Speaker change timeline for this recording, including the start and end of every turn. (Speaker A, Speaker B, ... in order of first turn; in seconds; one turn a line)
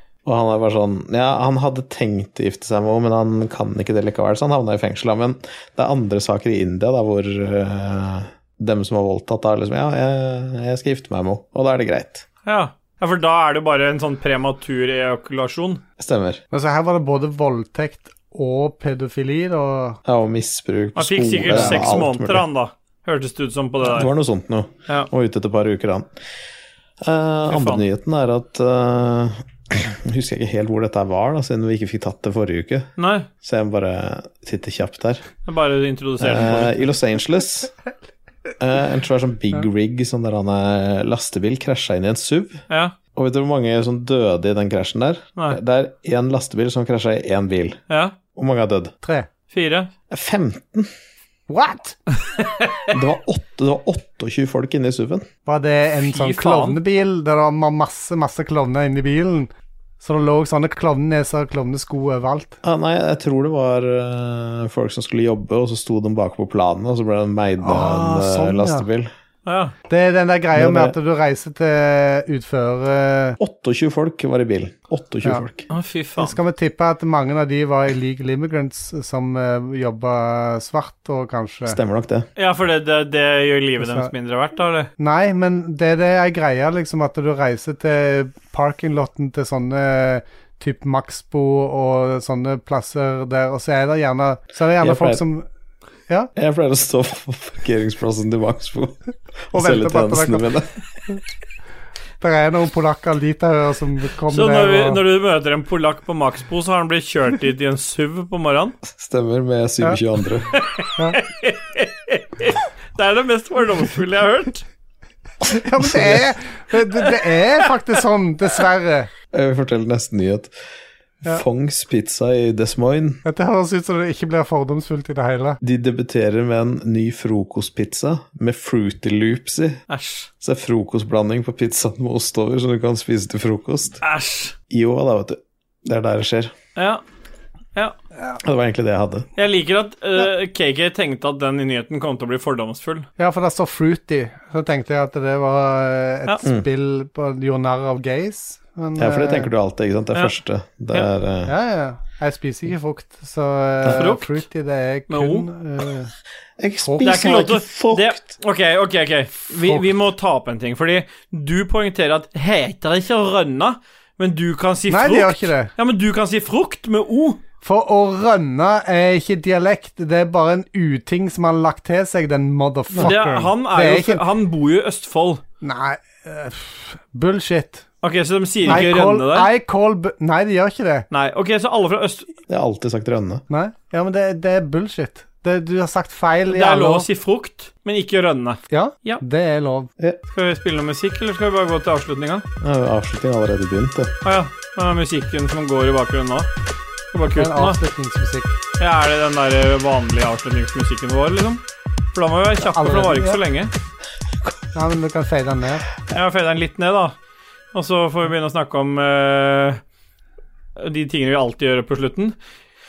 Speaker A: 0.2-12.2
Speaker B: 12.4-15.8
Speaker A: 16.0-16.4
Speaker C: 16.5-20.0
Speaker A: 20.0-22.4
Speaker B: 20.9-24.1
Speaker C: 21.5-21.9
Speaker A: 23.8-26.1
Speaker A: 27.0-32.9
Speaker B: 27.5-27.8
Speaker B: 33.0-33.3
Speaker A: 33.4-35.2
Speaker B: 35.4-36.9
Speaker A: 36.2-37.7
Speaker A: 38.6-42.6
Speaker B: 42.7-42.9
Speaker A: 43.1-47.8
Speaker B: 47.9-48.1
Speaker A: 48.3-48.9
Speaker C: 49.0-49.3
Speaker B: 49.5-49.9
Speaker A: 50.1-50.9
Speaker C: 51.5-52.0
Speaker B: 52.3-52.9
Speaker A: 52.9-55.2
Speaker C: 55.5-62.6
Speaker B: 56.0-56.8
Speaker A: 62.6-69.1
Speaker C: 67.6-68.8
Speaker B: 69.5-69.7
Speaker C: 69.9-73.4
Speaker A: 70.5-70.9
Speaker A: 73.4-75.6
Speaker B: 75.7-76.4
Speaker C: 76.2-81.8
Speaker A: 81.7-82.3
Speaker B: 82.4-84.9
Speaker C: 83.8-84.1
Speaker C: 85.0-95.5
Speaker A: 94.8-95.2
Speaker A: 96.3-99.0
Speaker A: 99.5-100.7
Speaker C: 99.5-100.5
Speaker C: 102.2-105.0
Speaker B: 104.3-108.8
Speaker A: 108.9-110.5
Speaker B: 110.5-114.6
Speaker C: 115.5-119.1
Speaker A: 119.3-120.5
Speaker A: 121.2-123.2
Speaker C: 123.2-125.6
Speaker A: 125.6-129.8
Speaker B: 129.9-130.3
Speaker A: 130.4-134.0
Speaker B: 134.0-134.5
Speaker A: 134.7-136.5
Speaker B: 136.8-137.0
Speaker A: 138.4-139.2
Speaker B: 139.4-143.1
Speaker C: 143.2-149.5
Speaker A: 149.0-151.5
Speaker C: 151.4-156.1
Speaker B: 153.9-154.4
Speaker B: 155.1-155.5
Speaker A: 156.6-158.2
Speaker C: 156.8-157.3
Speaker B: 157.0-167.4
Speaker C: 164.9-165.7
Speaker C: 167.6-174.2
Speaker B: 173.0-175.4
Speaker C: 175.6-177.8
Speaker B: 178.0-179.5
Speaker C: 178.6-181.1
Speaker B: 181.1-182.3
Speaker A: 182.5-183.4
Speaker C: 183.5-187.1
Speaker B: 186.5-189.2
Speaker C: 188.7-189.9
Speaker B: 190.3-192.4
Speaker A: 192.6-194.1
Speaker B: 194.2-196.5
Speaker B: 197.1-197.8
Speaker C: 197.3-198.6
Speaker B: 198.8-201.6
Speaker B: 202.1-203.7
Speaker C: 202.6-203.4
Speaker C: 204.7-205.8
Speaker B: 206.1-207.1
Speaker B: 207.7-209.8
Speaker B: 210.8-212.3